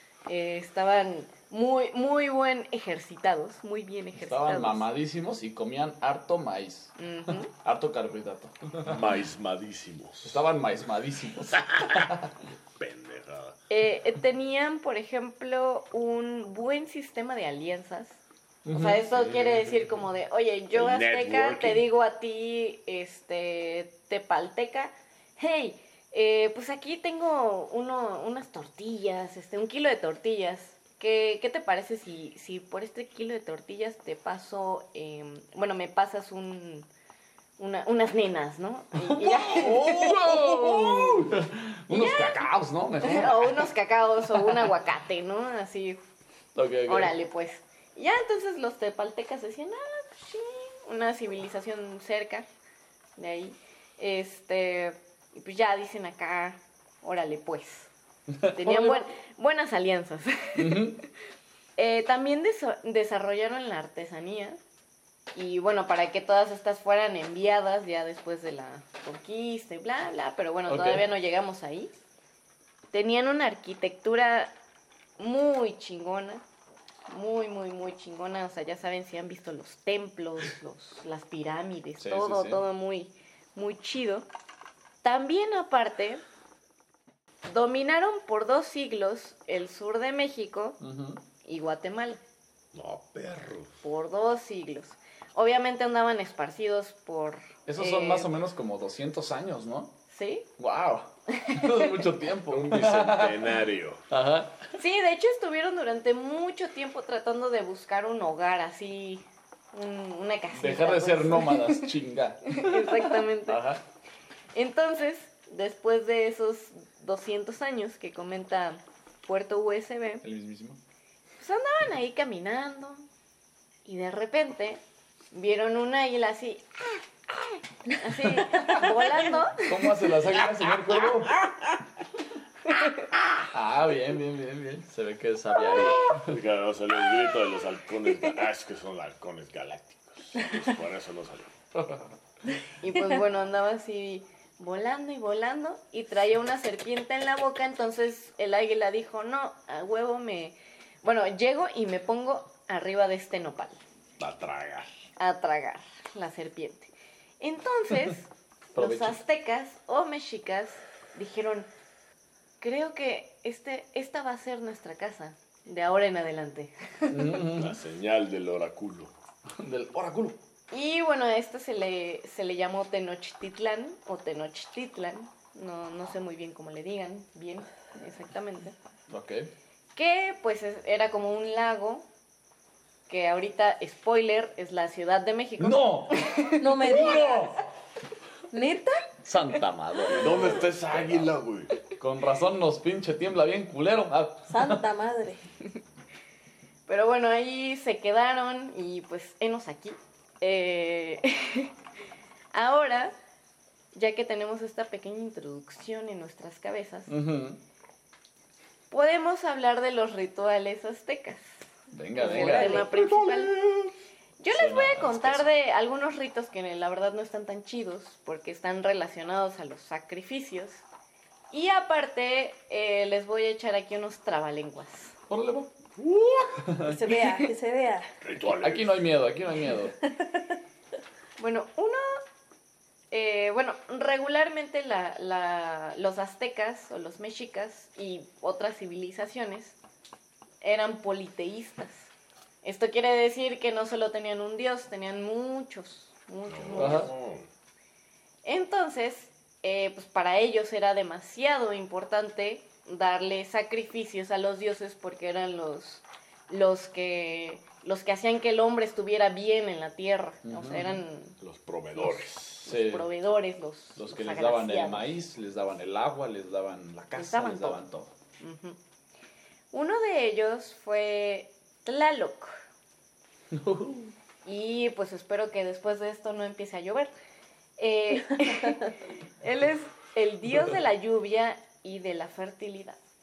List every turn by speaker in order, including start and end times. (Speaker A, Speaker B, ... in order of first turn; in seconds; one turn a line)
Speaker A: 0.2-4.8
Speaker B: 4.2-9.0
Speaker A: 7.0-7.5
Speaker C: 8.8-10.4
Speaker B: 10.2-12.3
Speaker C: 11.7-12.1
Speaker C: 12.8-13.6
Speaker A: 13.7-18.2
Speaker B: 18.6-19.0
Speaker A: 18.7-36.9
Speaker C: 20.7-21.8
Speaker A: 37.6-41.3
Speaker B: 39.0-43.7
Speaker A: 41.9-42.4
Speaker A: 43.0-46.0
Speaker B: 44.3-44.7
Speaker B: 46.5-47.1
Speaker A: 46.9-52.5
Speaker A: 53.2-57.9
Speaker A: 58.4-61.0
Speaker D: 58.6-59.0
Speaker B: 60.6-61.0
Speaker A: 61.8-64.6
Speaker A: 65.3-71.9
Speaker B: 70.7-71.0
Speaker A: 72.9-74.5
Speaker A: 75.2-76.4
Speaker A: 77.1-84.2
Speaker B: 82.0-82.6
Speaker A: 85.0-86.2
Speaker A: 87.5-90.8
Speaker B: 90.8-91.2
Speaker A: 91.4-92.2
Speaker C: 92.7-93.7
Speaker A: 93.8-98.3
Speaker B: 97.7-99.9
Speaker A: 100.1-100.4
Speaker B: 100.6-103.5
Speaker A: 101.4-102.0
Speaker C: 102.5-104.0
Speaker B: 104.1-104.7
Speaker A: 104.8-111.9
Speaker B: 110.5-113.8
Speaker A: 112.5-113.6
Speaker A: 114.5-120.2
Speaker B: 120.2-120.8
Speaker A: 121.4-123.0
Speaker A: 123.8-124.8
Speaker A: 125.3-129.9
Speaker B: 128.5-128.9
Speaker B: 129.5-131.5
Speaker A: 132.7-133.1
Speaker B: 133.5-136.3
Speaker C: 136.2-141.5
Speaker B: 141.8-142.0
Speaker A: 142.8-153.8
Speaker C: 154.2-154.9
Speaker A: 155.2-161.7
Speaker B: 158.7-159.2
Speaker A: 162.6-167.4
Speaker B: 167.1-167.7
Speaker C: 167.5-169.1
Speaker B: 169.6-170.4
Speaker A: 170.7-178.7
Speaker B: 179.1-179.5
Speaker A: 179.9-182.1
Speaker A: 183.1-187.4
Speaker B: 185.6-187.5
Speaker D: 186.6-187.6
Speaker D: 188.5-189.1
Speaker B: 189.2-191.3
Speaker C: 190.1-191.7
Speaker B: 192.0-194.8
Speaker D: 194.5-195.4
Speaker A: 196.9-201.7
Speaker A: 202.5-203.1
Speaker A: 203.9-207.1
Speaker B: 207.1-207.6
Speaker A: 208.9-211.6
Speaker B: 211.9-212.9
Speaker A: 212.2-213.6
Speaker D: 212.2-212.7
Speaker C: 212.5-213.9
Speaker A: 214.4-220.8
Speaker B: 214.5-215.4
Speaker A: 221.5-225.1
Speaker B: 225.3-225.7
Speaker C: 226.0-226.7
Speaker B: 226.7-227.0
Speaker D: 226.8-228.1
Speaker A: 227.1-227.4
Speaker C: 228.2-229.0
Speaker B: 228.4-229.9
Speaker D: 230.0-230.5
Speaker A: 231.4-232.2
Speaker A: 233.1-239.8
Speaker A: 240.6-242.1
Speaker A: 242.6-247.1
Speaker C: 246.5-247.4
Speaker B: 246.8-247.1
Speaker A: 248.4-261.4
Speaker B: 260.4-261.0
Speaker C: 261.4-262.7
Speaker A: 262.0-265.1
Speaker B: 262.6-263.1
Speaker B: 263.9-268.1
Speaker A: 267.1-267.8
Speaker A: 268.4-268.8
Speaker A: 269.7-272.5
Speaker B: 273.5-274.1
Speaker A: 274.4-277.1
Speaker A: 277.8-283.0